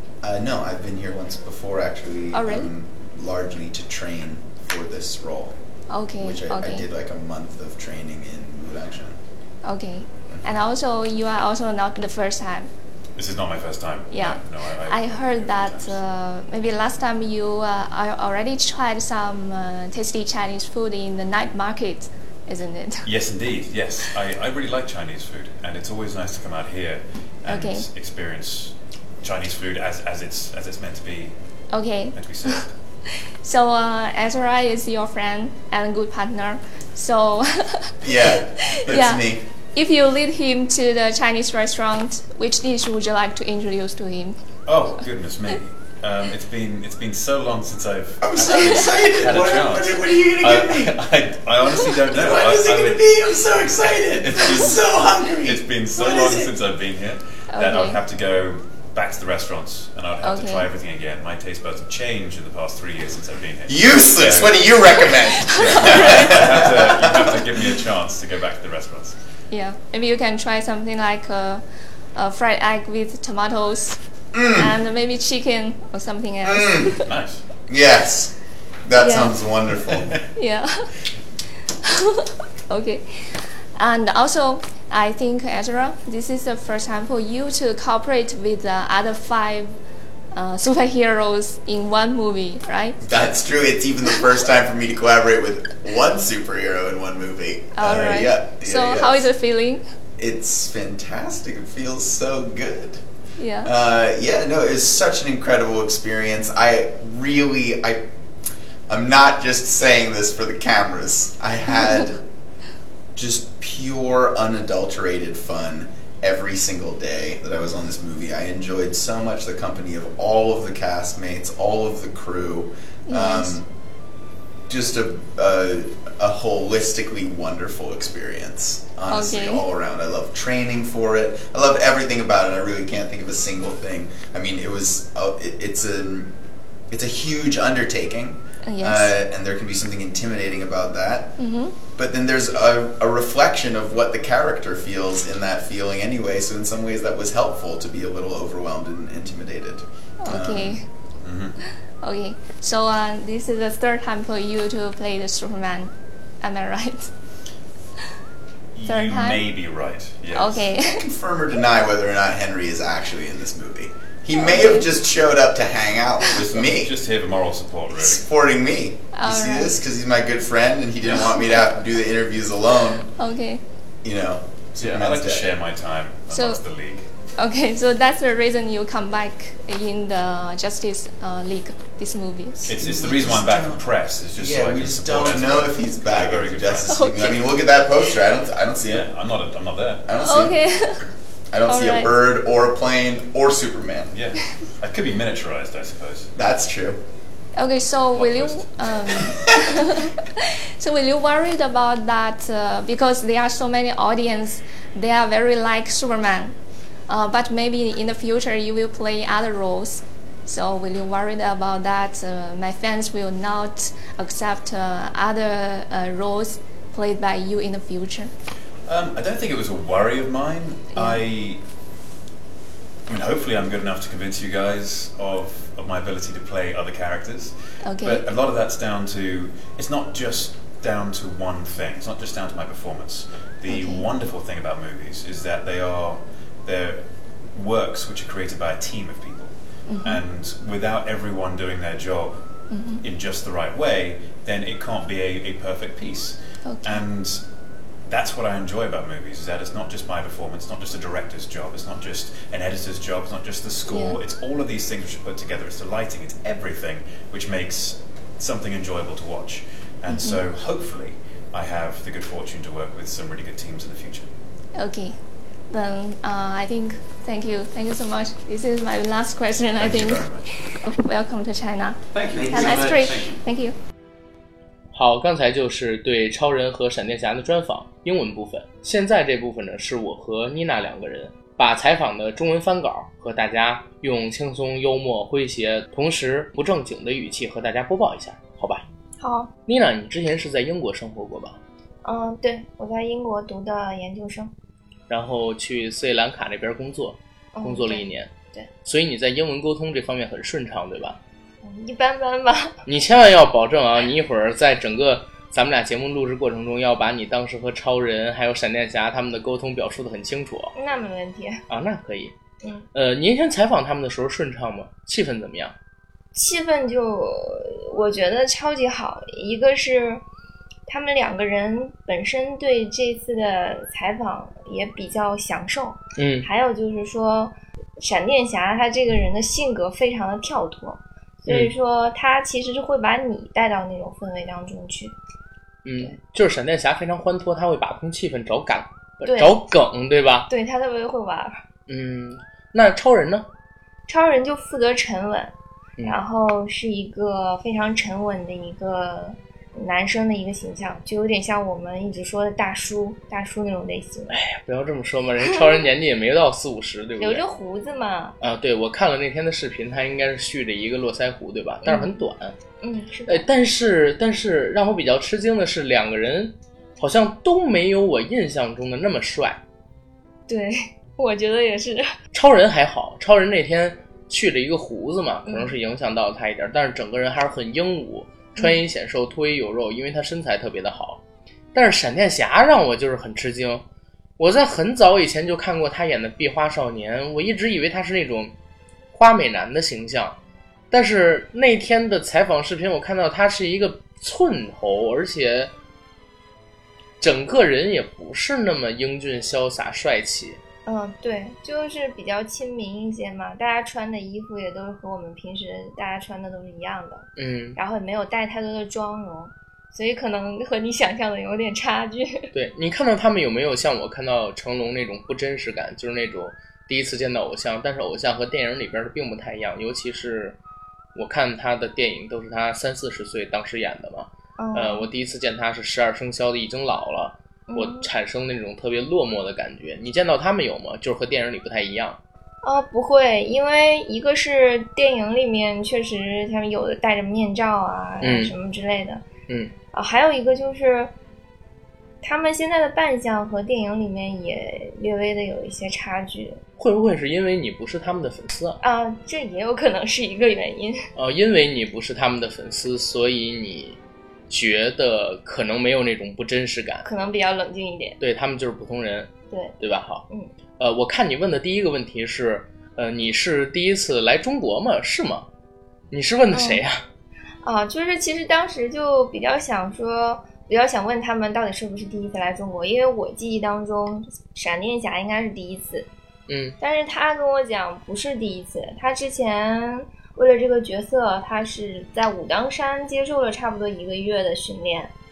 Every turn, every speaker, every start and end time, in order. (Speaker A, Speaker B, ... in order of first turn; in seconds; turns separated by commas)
Speaker A: 0.2-5.5, Speaker B: 2.3-2.7, Speaker B: 5.9-6.8, Speaker A: 6.2-9.2, Speaker B: 9.6-12.7, Speaker A: 10.3-10.6, Speaker C: 13.2-16.0, Speaker B: 14.1-23.1, Speaker C: 23.0-31.3, Speaker B: 27.5-27.9, Speaker B: 31.7-32.6, Speaker C: 32.1-32.7, Speaker B: 33.4-37.9, Speaker A: 38.0-39.4, Speaker B: 38.8-44.4, Speaker C: 44.7-53.0, Speaker A: 48.2-51.0, Speaker B: 48.5-48.8, Speaker A: 52.1-56.5, Speaker C: 53.6-69.2, Speaker B: 57.5-58.0, Speaker B: 60.2-60.7, Speaker A: 63.7-67.4, Speaker B: 65.2-66.6, Speaker B: 69.5-71.6, Speaker B: 72.1-77.0, Speaker A: 74.3-74.8, Speaker A: 76.4-77.0, Speaker C: 77.0-77.4, Speaker A: 77.7-80.2, Speaker B: 79.0-79.3, Speaker B: 80.3-80.9, Speaker B: 81.8-89.8, Speaker B: 90.3-93.3, Speaker A: 93.0-99.3, Speaker B: 97.7-99.8, Speaker A: 100.2-103.0, Speaker B: 103.4-103.7, Speaker A: 103.6-108.0, Speaker A: 108.9-112.2, Speaker B: 111.7-112.1, Speaker A: 113.1-123.7, Speaker B: 123.1-123.6, Speaker A: 124.7-136.3, Speaker B: 129.1-129.6, Speaker A: 136.9-141.4, Speaker B: 138.6-139.2, Speaker B: 141.4-141.8, Speaker A: 141.9-150.8, Speaker B: 150.2-150.8, Speaker C: 151.2-151.6, Speaker B: 151.6-157.1, Speaker C: 158.7-160.7, Speaker B: 158.8-159.4, Speaker B: 160.3-161.0, Speaker A: 160.8-166.9, Speaker B: 164.3-164.9, Speaker C: 166.5-168.2, Speaker A: 167.9-173.1, Speaker B: 169.1-169.8, Speaker B: 171.2-171.6, Speaker B: 173.1-173.6, Speaker A: 174.0-175.5, Speaker C: 174.8-177.1, Speaker B: 176.3-176.6, Speaker B: 177.4-182.8, Speaker C: 182.7-187.0, Speaker A: 182.8-189.1, Speaker B: 186.8-187.7, Speaker C: 188.8-190.0, Speaker A: 190.1-190.6, Speaker B: 190.2-191.1, Speaker A: 191.5-194.1, Speaker B: 191.6-192.1, Speaker C: 194.1-196.3, Speaker A: 196.3-197.0, Speaker B: 197.6-206.6, Speaker C: 198.1-198.8, Speaker B: 207.1-218.3, Speaker C: 218.8-221.6, Speaker B: 220.9-221.2, Speaker C: 223.1-237.0, Speaker B: 227.8-228.2, Speaker B: 233.7-234.1, Speaker C: 237.5-242.4, Speaker B: 239.8-240.2, Speaker B: 242.7-243.0, Speaker C: 243.0-247.4, Speaker B: 246.6-247.0, Speaker C: 248.1-264.3, Speaker B: 253.9-254.2, Speaker B: 260.1-260.4, Speaker B: 264.7-265.2, Speaker B: 265.7-273.8, Speaker C: 269.8-270.5, Speaker C: 272.1-273.4, Speaker D: 274.9-288.8, Speaker E: 289.2-289.5, Speaker D: 289.7-291.6, Speaker E: 292.0-294.5, Speaker D: 295.1-298.3, Speaker E: 297.5-298.7, Speaker D: 298.8-301.2, Speaker E: 301.6-302.8, Speaker D: 302.9-310.7, Speaker E: 310.7-311.6, Speaker D: 311.7-312.3, Speaker E: 312.6-312.9, Speaker D: 312.9-315.7, Speaker E: 316.3-320.2, Speaker E: 320.9-335.1, Speaker D: 326.1-326.5, Speaker D: 331.5-331.7, Speaker D: 335.8-340.5, Speaker E: 339.2-339.6, Speaker E: 340.5-341.6, Speaker D: 341.9-343.5, Speaker E: 344.1-345.5, Speaker E: 346.0-354.4, Speaker D: 354.3-357.4, Speaker E: 357.2-358.4, Speaker D: 358.4-362.5, Speaker E: 361.8-362.3, Speaker E: 362.8-363.5, Speaker D: 363.3-369.6, Speaker E: 370.5-372.1, Speaker D: 372.3-381.2, Speaker E: 375.4-375.8, Speaker E: 378.6-378.8, Speaker D: 381.7-383.8, Speaker D: 384.4-388.5, Speaker D: 389.1-390.4, Speaker D: 390.9-395.7, Speaker D: 397.2-400.6, Speaker E: 400.8-412.5, Speaker D: 407.4-407.8, Speaker D: 412.5-420.6, Speaker D: 421.1-432.2, Speaker E: 424.6-425.1, Speaker E: 427.7-428.1, Speaker E: 432.6-439.2, Speaker D: 438.2-438.5, Speaker E: 439.9-441.1, Speaker E: 442.2-446.6, Speaker D: 446.8-448.8, Speaker E: 448.8-451.0, Speaker D: 451.1-457.1, Speaker E: 457.0-458.2, Speaker D: 458.2-460.3, Speaker E: 459.5-459.8, Speaker E: 460.3-460.5, Speaker D: 460.8-465.5, Speaker D: 466.1-467.0, Speaker E: 466.5-466.8, Speaker E: 467.6-476.1, Speaker D: 476.5-476.8, Speaker E: 476.8-485.1